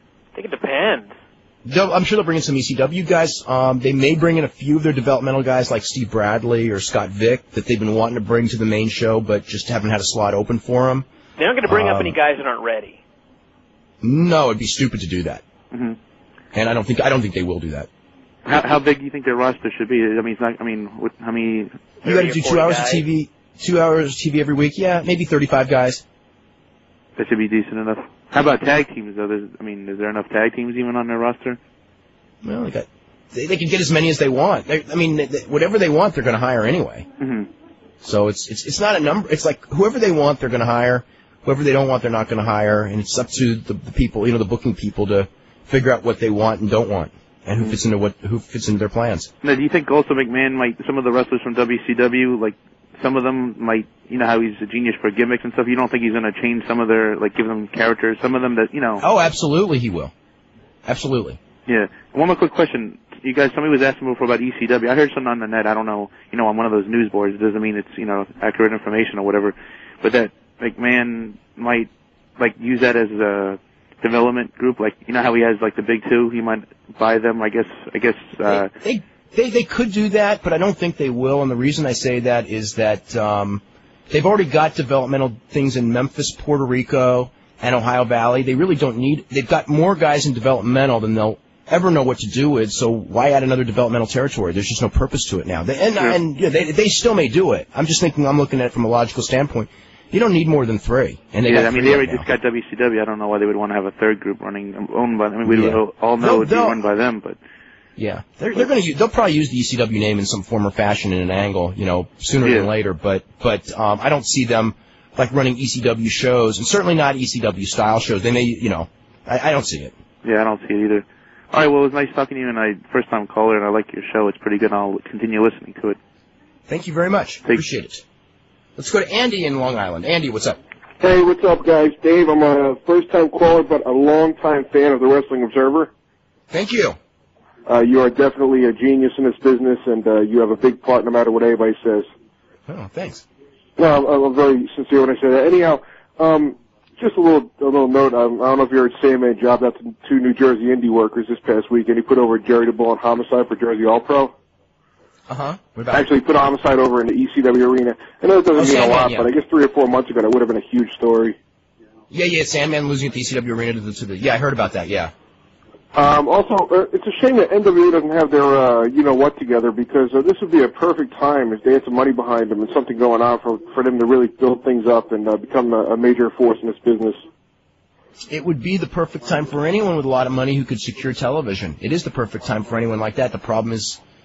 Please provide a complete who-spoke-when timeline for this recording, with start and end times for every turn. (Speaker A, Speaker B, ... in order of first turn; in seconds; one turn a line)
Speaker A: 0.3-1.1
Speaker B: 1.6-11.1
Speaker A: 11.4-13.0
Speaker B: 11.7-12.2
Speaker B: 14.0-15.4
Speaker C: 15.7-16.0
Speaker B: 16.5-17.9
Speaker C: 18.4-21.9
Speaker B: 22.0-26.0
Speaker A: 22.0-23.0
Speaker C: 27.2-31.6
Speaker B: 32.4-37.1
Speaker C: 37.2-37.5
Speaker B: 38.0-49.3
Speaker C: 49.4-59.0
Speaker B: 59.0-60.1
Speaker B: 60.9-61.4
Speaker C: 61.6-78.7
Speaker B: 78.5-102.3
Speaker C: 101.4-107.4
Speaker B: 105.5-106.8
Speaker B: 108.0-119.9
Speaker C: 112.4-112.7
Speaker C: 120.2-126.0
Speaker B: 126.7-128.0
Speaker B: 128.8-130.6
Speaker D: 131.0-135.9
Speaker B: 136.5-137.0
Speaker D: 137.7-142.1
Speaker B: 142.7-143.2
Speaker D: 143.8-154.3
Speaker B: 155.3-156.1
Speaker D: 155.9-161.3
Speaker B: 158.5-159.3
Speaker B: 162.1-165.1
Speaker D: 165.9-177.2
Speaker B: 178.3-184.0